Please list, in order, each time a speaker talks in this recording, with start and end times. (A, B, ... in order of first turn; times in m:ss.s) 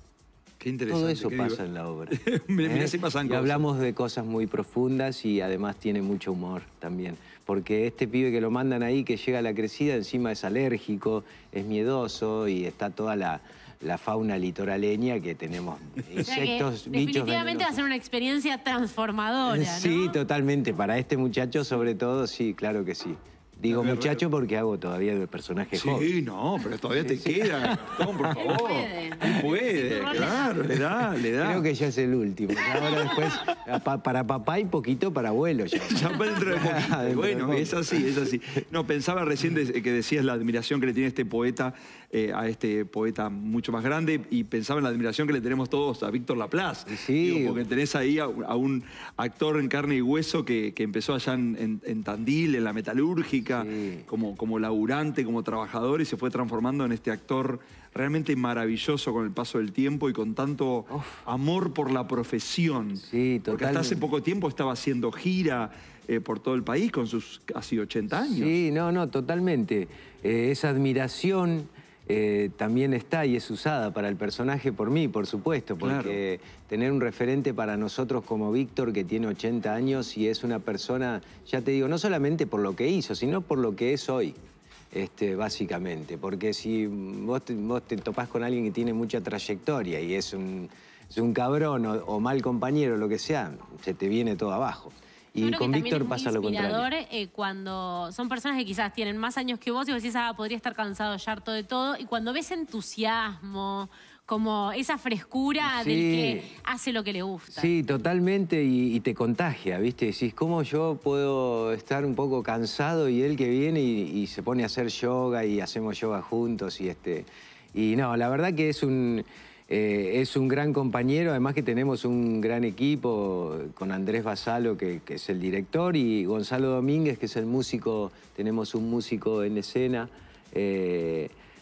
0:00.6-0:03.7 A
0:00.9-0:17.8 B
0:16.2-0:20.2 C
0:19.4-0:26.1 B
0:23.7-0:24.2 A
0:25.7-0:31.6 A
0:26.9-0:28.5 B
0:28.3-0:30.6 C
0:30.8-0:38.6 B
0:32.7-0:33.5 A
0:35.8-1:08.5 A
0:46.9-0:47.6 B
0:53.5-0:54.1 B
1:00.9-1:01.2 B
1:03.0-1:04.0 B
1:08.1-1:24.4 B
1:15.8-1:16.1 A
1:24.9-1:36.9 B
1:35.4-1:47.7 C
1:45.6-1:46.5 B
1:47.5-2:11.3 B